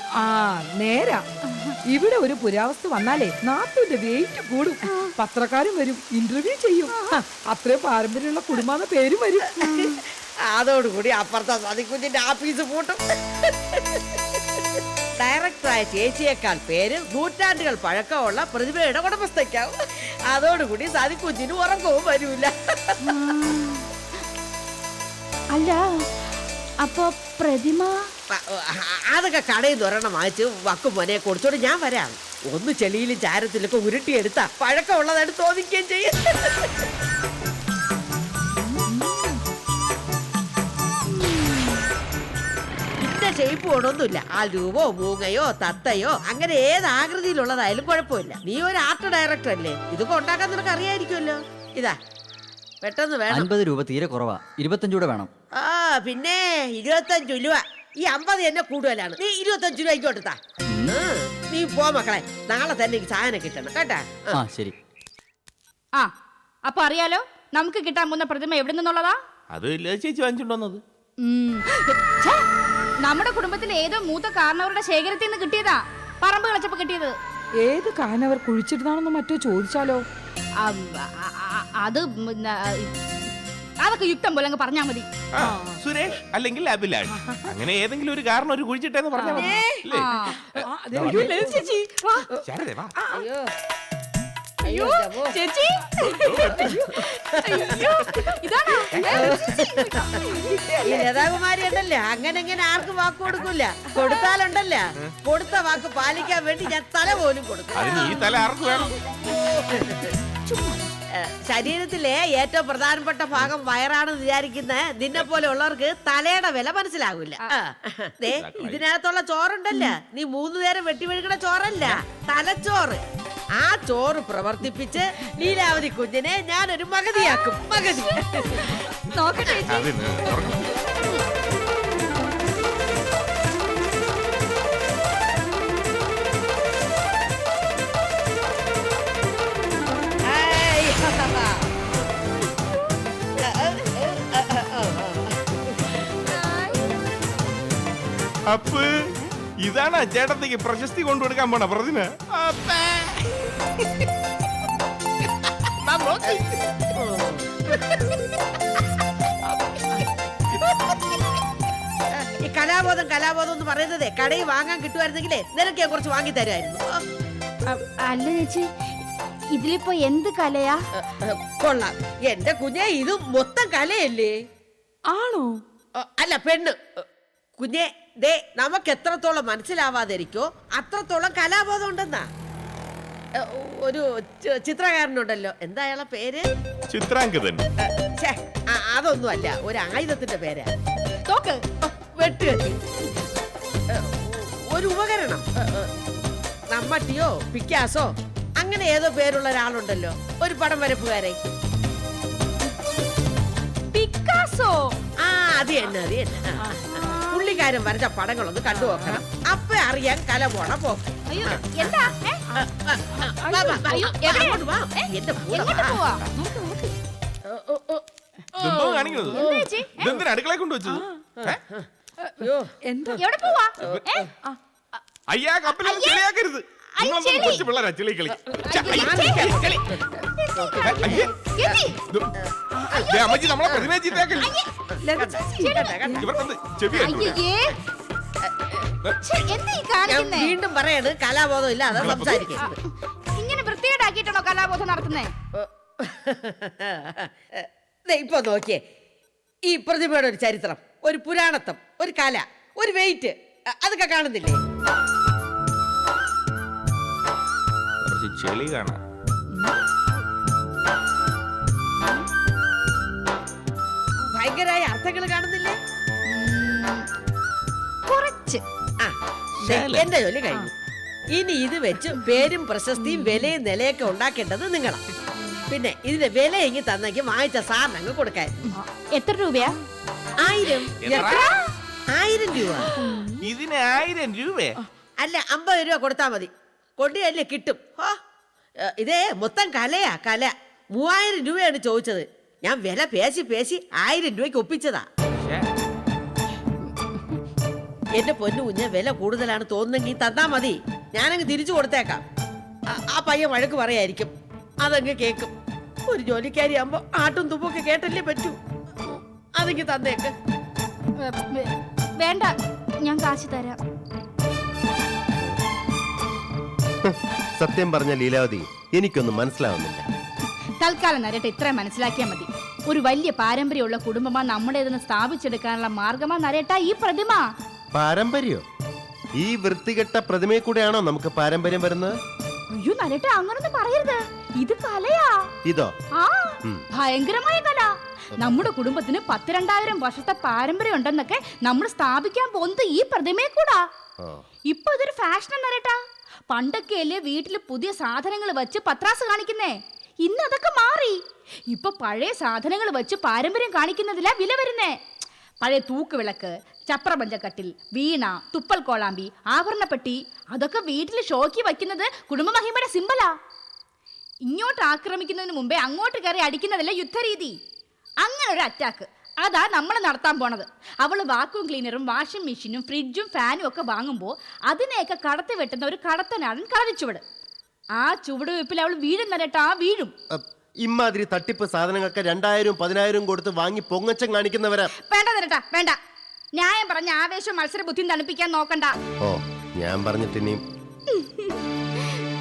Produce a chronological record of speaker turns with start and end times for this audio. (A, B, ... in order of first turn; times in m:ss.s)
0:00.2-0:01.2 A
0:01.5-0:01.7 B
0:01.9-0:09.7 A
0:06.9-0:07.2 B
0:09.6-0:14.2 C
0:15.2-0:23.1 C
0:23.1-0:23.8 B
0:25.5-0:25.8 B
0:26.8-0:28.0 B
0:28.3-0:36.8 C
0:43.0-0:52.0 C
0:52.8-0:53.5 C
0:53.5-0:55.3 D
0:55.6-1:04.4 C
1:04.4-1:04.7 D
1:06.6-1:09.2 B
1:09.5-1:10.8 E
1:11.2-1:12.4 B
1:13.0-1:17.1 B
1:17.6-1:20.0 A
1:20.6-1:22.9 B
1:23.8-1:25.0 B
1:25.3-1:31.4 E
1:25.4-1:25.8 A
1:27.1-1:27.5 A
1:29.2-1:29.8 A
1:29.9-1:30.4 B
1:30.5-1:32.2 A
1:31.0-1:32.2 B
1:32.4-1:33.0 E
1:33.0-1:33.3 A
1:33.1-1:33.4 C
1:34.6-1:35.4 C
1:34.6-1:36.5 B
1:36.2-1:36.8 E
1:36.4-1:38.1 C
1:36.6-1:37.0 A
1:37.4-1:39.6 B
1:39.0-1:41.3 A
1:39.0-1:40.3 C
1:40.8-1:48.1 C
1:47.7-1:48.9 E
1:49.2-1:50.2 C
1:50.5-1:50.8 A
1:51.2-2:03.0 C
1:58.3-1:58.8 E
2:03.6-2:08.9 C
2:07.2-2:07.5 B
2:08.2-2:09.9 B
2:09.7-2:10.8 E
2:20.3-2:21.6 C
2:23.4-2:26.4 C
2:28.5-2:28.9 E
2:29.6-2:33.2 E
2:35.8-2:36.6 E
2:36.9-2:38.1 C
2:40.5-2:41.2 C
2:42.2-2:47.0 C
2:47.6-2:48.7 B
2:49.5-2:50.8 B
2:51.0-2:54.3 C
2:55.1-2:55.6 A
2:56.0-2:57.0 C
2:57.6-3:02.3 C
3:03.4-3:06.4 C
3:06.9-3:07.6 E
3:08.2-3:10.7 C
3:11.2-3:11.6 B
3:11.8-3:12.8 C
3:13.9-3:15.9 C
3:16.7-3:18.1 C
3:18.6-3:21.4 C
3:23.9-3:24.9 B
3:25.2-3:36.0 C
3:27.0-3:27.6 B
3:28.7-3:29.2 A
3:31.3-3:32.4 B
3:33.1-3:34.1 A
3:33.9-3:36.2 B
3:36.4-3:36.9 A
3:37.5-3:38.0 C
3:38.6-3:39.6 C
3:38.6-3:39.4 E
3:39.3-3:40.2 B
3:40.0-3:41.6 E
3:40.8-3:41.2 A
3:41.4-3:41.8 C
3:42.4-3:43.2 C
3:42.8-3:43.2 A
3:43.1-3:44.2 B
3:43.8-3:44.2 C
3:45.3-3:49.8 E
3:45.8-3:46.2 B
3:47.0-3:47.6 B
3:48.7-3:49.6 B
3:48.8-3:50.0 C
3:50.2-3:52.0 B
3:50.6-3:51.8 C
3:50.8-3:51.3 E
3:52.4-3:54.2 C
3:52.7-3:53.0 A
3:53.0-3:54.5 E
3:54.4-3:54.7 B
3:54.9-3:56.3 C
3:55.0-3:56.4 A
3:55.5-3:56.0 B
3:56.2-3:57.4 E
3:57.0-3:57.7 B
3:58.4-3:58.9 C
3:59.2-4:00.5 B
4:00.1-4:02.8 C
4:01.9-4:02.6 E
4:03.4-4:05.3 B
4:05.6-4:08.8 C
4:09.7-4:14.6 C
4:18.0-4:19.0 E
4:24.3-4:25.8 C
4:26.3-4:27.0 B
4:28.1-4:28.6 B
4:29.0-4:30.7 C
4:29.6-4:30.1 E
4:31.3-4:35.0 C
4:35.7-4:38.7 C
4:39.1-4:39.8 B
4:40.4-4:40.9 C
4:41.0-4:41.5 E
4:41.1-4:41.4 A
4:41.2-4:41.6 B
4:42.1-4:42.9 C
4:43.0-4:43.3 A
4:43.4-4:44.8 E
4:45.2-4:48.1 C
4:48.8-4:55.0 C
4:58.2-5:02.2 C
5:02.9-5:05.5 C
5:06.1-5:10.3 C
5:11.2-5:12.5 B
5:13.0-5:13.8 B
5:17.0-5:20.0 F
5:20.8-5:27.5 B
5:27.9-5:28.6 F
5:29.4-5:32.1 F
5:32.7-5:35.4 B
5:35.6-5:35.9 F
5:36.2-5:43.8 B
5:44.7-5:46.0 B
5:46.5-5:51.2 B
5:51.7-5:55.0 B
5:55.6-6:03.3 B
6:04.5-6:07.6 B
6:08.2-6:17.2 B
6:18.0-6:20.1 B
6:20.3-6:24.9 F
6:25.0-6:26.0 B
6:26.6-6:28.9 B
6:29.2-6:30.6 F
6:31.1-6:31.6 B